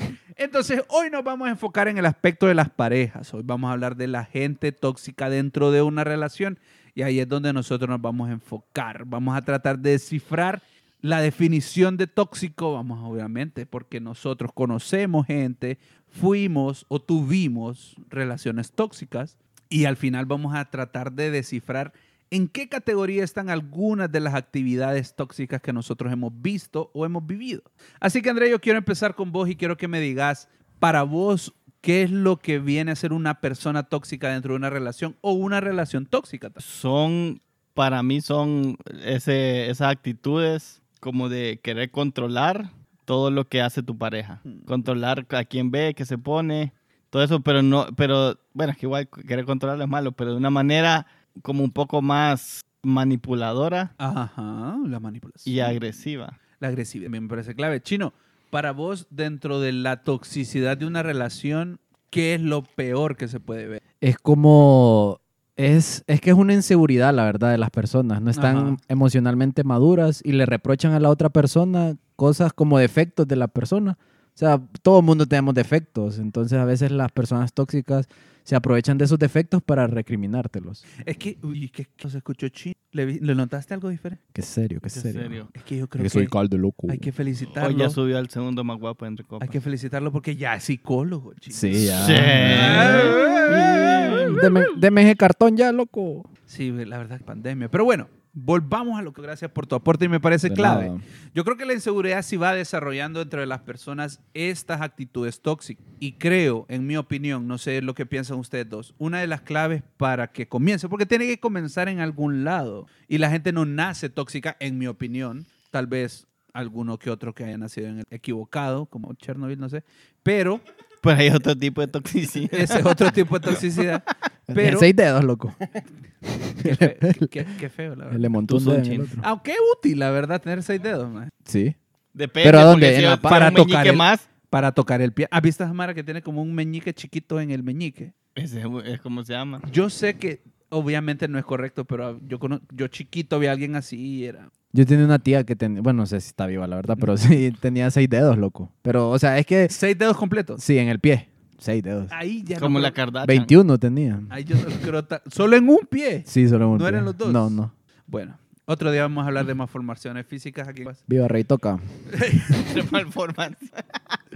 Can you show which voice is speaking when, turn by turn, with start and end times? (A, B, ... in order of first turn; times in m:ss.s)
0:00.4-0:36.6 A
0:36.6-0:53.9 B
0:54.0-0:55.8 A
0:55.4-0:56.4 B
0:56.6-1:03.8 A
1:04.0-1:20.8 C
1:08.3-1:08.8 A
1:21.0-1:24.2 A
1:24.3-1:25.4 C
1:24.9-1:25.5 B
1:25.5-1:26.3 A
1:26.0-1:27.0 C
1:26.9-1:27.9 A
1:27.6-1:29.6 B
1:29.4-1:34.3 A
1:31.5-1:36.3 C
1:31.8-1:34.3 B
1:36.5-2:00.6 A
1:40.4-1:41.0 C
2:01.0-2:03.0 B
2:02.5-2:04.9 A
2:04.5-2:05.5 C
2:06.6-2:07.3 C
2:06.6-2:08.3 A
2:08.1-2:09.2 C
2:08.4-2:09.1 B
2:09.2-2:11.3 A
2:11.4-2:11.8 C
2:12.1-2:14.2 B
2:12.4-2:13.4 C
2:13.2-2:18.1 A
2:18.4-2:19.6 B
2:19.6-2:24.5 A
2:24.7-2:29.7 C
2:29.7-2:30.6 A
2:30.6-2:32.1 C
2:32.1-2:33.0 A
2:32.6-2:33.5 B
2:33.2-2:34.3 C
2:34.3-2:37.6 A
2:36.3-2:37.7 C
2:38.1-2:41.0 A
2:41.1-2:41.8 C
2:42.1-2:42.7 A
2:42.5-2:44.2 B